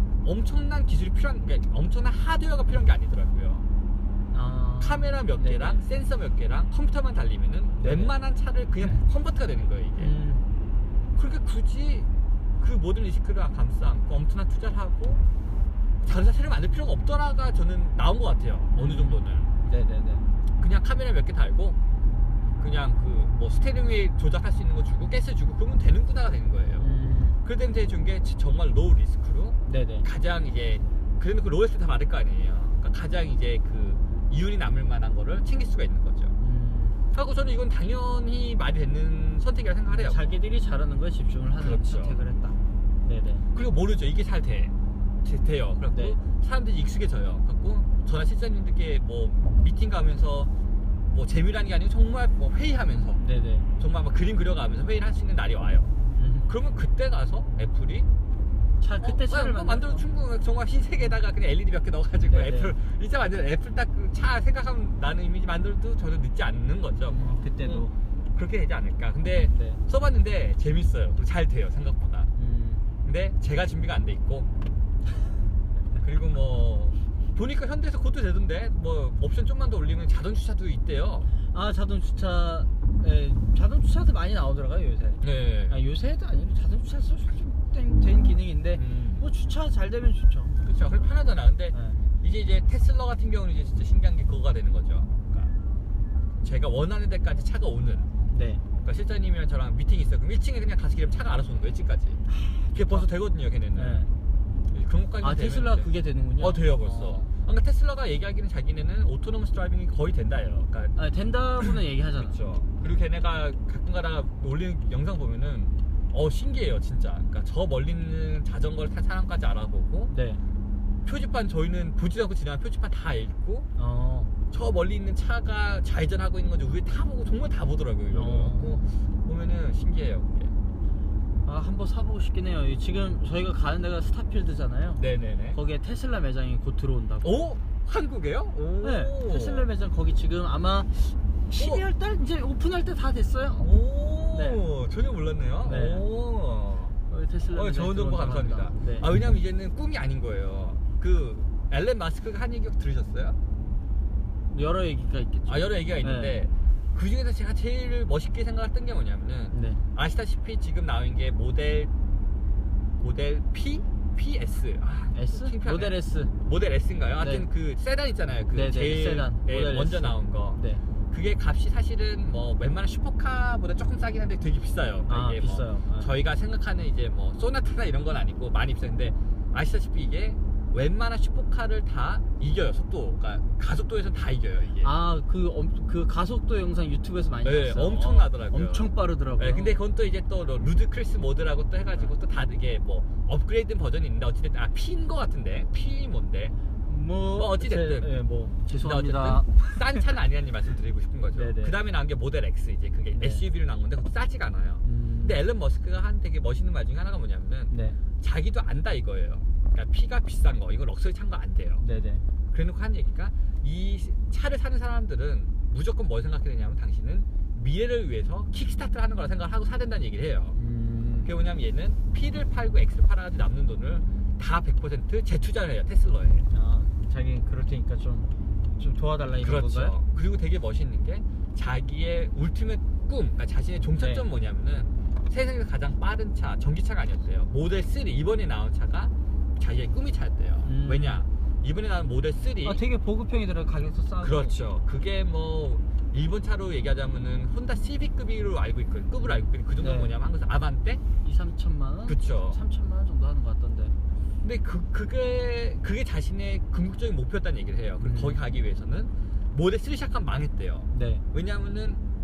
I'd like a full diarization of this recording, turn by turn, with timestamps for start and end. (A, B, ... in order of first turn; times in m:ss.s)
0:00.2-0:03.7 A
0:04.3-0:05.8 B
0:04.8-0:10.1 A
0:07.8-0:08.1 B
0:10.0-0:10.5 B
0:11.2-0:15.2 A
0:16.0-0:19.5 A
0:18.8-0:20.2 B
0:20.6-0:21.8 A
0:22.6-0:26.9 A
0:26.8-0:27.4 B
0:27.4-0:36.4 A
0:29.7-0:30.1 B
0:36.4-0:37.0 B
0:37.1-0:40.4 A
0:39.9-0:43.5 B
0:41.6-0:42.2 A
0:43.5-0:50.5 A
0:45.9-0:46.2 B
0:51.1-0:53.2 A
0:53.2-0:53.7 B
0:53.8-0:55.9 A
0:56.2-0:56.5 B
0:56.5-0:58.1 A
0:58.8-1:00.0 B
0:59.0-1:12.3 A
1:02.2-1:02.8 B
1:07.1-1:07.9 B
1:09.5-1:09.8 B
1:12.4-1:12.8 B
1:13.0-1:14.5 A
1:16.0-1:21.3 A
1:21.5-1:30.8 B
1:25.2-1:25.8 A
1:28.7-1:29.3 A
1:30.6-1:35.6 A
1:31.7-1:32.0 B
1:36.4-1:38.1 A
1:38.3-1:38.6 B
1:38.8-1:42.2 A
1:42.3-1:43.1 B
1:42.7-1:44.1 A
1:43.8-1:44.1 B
1:44.7-1:51.0 A
1:45.2-1:47.3 B
1:51.0-1:52.4 B
1:51.6-2:00.1 A
2:00.1-2:00.4 B
2:01.0-2:03.7 A
2:03.8-2:04.3 B
2:04.5-2:10.6 A
2:08.1-2:08.8 B
2:11.4-2:17.5 B
2:15.0-2:15.6 A
2:17.2-2:19.7 A
2:18.8-2:23.7 B
2:21.6-2:21.8 A
2:23.6-2:27.0 A
2:24.3-2:24.6 B
2:25.6-2:26.0 B
2:27.1-2:29.1 B
2:27.5-2:33.4 A
2:34.5-2:36.4 B
2:35.5-2:41.9 A
2:39.5-2:39.8 B
2:43.0-3:04.9 A
2:45.1-2:46.3 B
2:47.2-2:47.5 B
2:48.5-2:50.8 B
2:55.1-2:56.1 B
3:04.8-3:09.8 B
3:07.4-3:16.6 A
3:16.9-3:20.2 B
3:17.4-3:18.2 A
3:18.7-3:31.8 A
3:21.3-3:21.8 B
3:23.1-3:23.4 B
3:24.8-3:25.4 B
3:27.7-3:28.0 B
3:31.8-3:32.2 B
3:32.5-3:40.6 A
3:40.6-3:41.3 B
3:41.2-3:46.5 A
3:46.5-3:50.0 B
3:49.4-4:02.8 A
3:54.0-3:54.2 B
4:00.6-4:01.2 B
4:02.6-4:04.6 B
4:04.2-4:11.0 A
4:09.2-4:10.1 B
4:11.2-4:14.0 B
4:12.1-4:12.6 A
4:14.4-4:22.0 A
4:18.0-4:18.4 B
4:20.9-4:21.2 B